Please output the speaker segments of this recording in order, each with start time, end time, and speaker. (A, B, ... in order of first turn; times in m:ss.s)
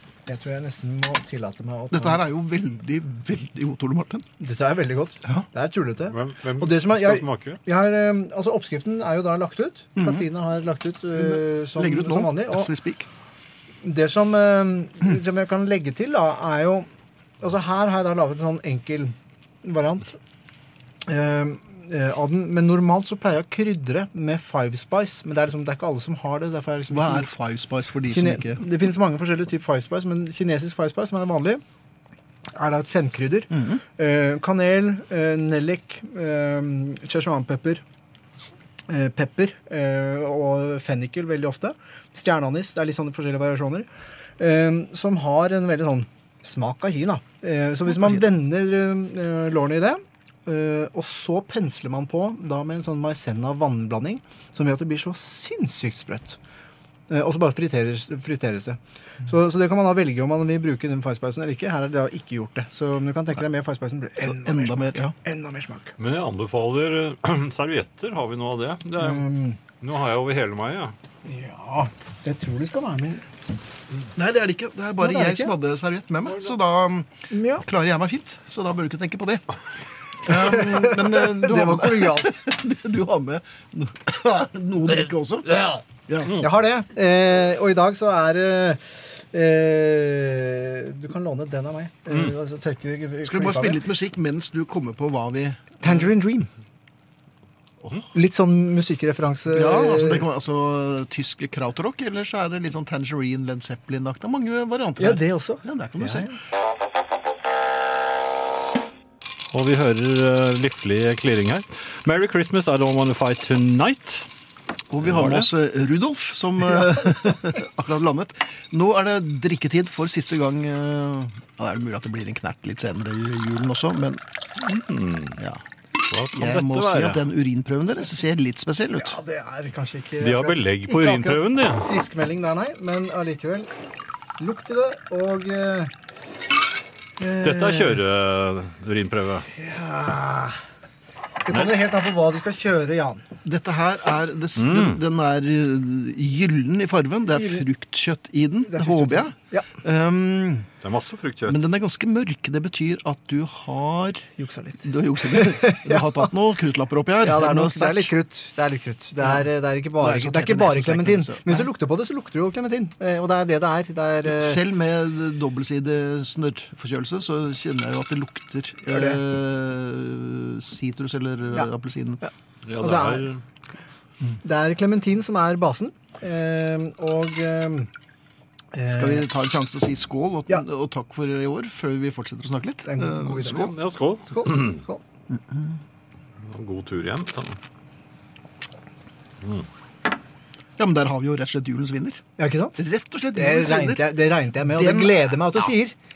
0:00.3-0:02.2 A
0:01.9-0:04.3 B
0:04.4-0:12.7 A
0:06.1-0:07.6 C
0:10.0-0:10.2 B
0:11.2-0:13.1 B
0:13.8-0:16.9 A
0:17.4-0:20.2 A
0:21.1-0:27.3 A
0:26.9-0:28.6 B
0:28.1-0:31.6 A
0:32.6-0:37.8 A
0:33.5-0:33.8 B
0:38.9-0:43.9 A
0:44.4-0:56.4 A
0:47.9-0:48.2 B
0:57.1-1:05.9 A
1:04.2-1:05.2 B
1:06.0-1:09.3 C
1:09.0-1:09.6 A
1:09.8-1:11.0 C
1:11.2-1:13.2 A
1:14.2-1:19.5 B
1:15.0-1:15.5 A
1:17.3-1:17.6 A
1:20.2-1:25.5 B
1:20.3-1:22.4 A
1:26.4-1:33.8 A
1:33.2-1:36.1 B
1:35.8-1:36.5 A
1:38.1-1:40.3 A
1:39.5-1:46.3 B
1:45.0-1:46.4 A
1:49.5-1:54.3 C
1:54.9-2:04.2 B
1:55.0-1:55.5 C
2:04.6-2:05.4 C
2:05.4-2:05.6 B
2:06.1-2:07.2 C
2:06.3-2:09.2 B
2:08.9-2:13.7 A
2:10.2-2:11.9 C
2:14.4-2:15.9 A
2:17.2-2:18.0 A
2:17.4-2:19.5 C
2:19.6-2:20.6 A
2:21.4-2:23.3 A
2:23.4-2:30.7 B
2:24.6-2:25.0 C
2:27.4-2:27.6 A
2:28.7-2:29.7 A
2:30.8-2:31.6 C
2:31.5-2:38.1 B
2:34.4-2:36.3 A
2:37.2-2:44.6 A
2:39.2-2:41.7 B
2:44.3-2:52.2 B
2:48.9-2:49.2 A
2:52.2-2:53.3 A
2:52.6-2:53.4 C
2:54.4-2:57.9 A
2:58.7-2:59.3 A
2:58.9-3:03.7 B
3:02.9-3:03.7 A
3:03.5-3:04.8 C
3:04.3-3:05.0 A
3:05.3-3:05.8 B
3:06.4-3:07.6 C
3:09.4-3:09.7 C
3:10.8-3:12.2 B
3:12.4-3:12.8 A
3:12.8-3:14.1 B
3:13.3-3:16.0 A
3:14.6-3:15.4 B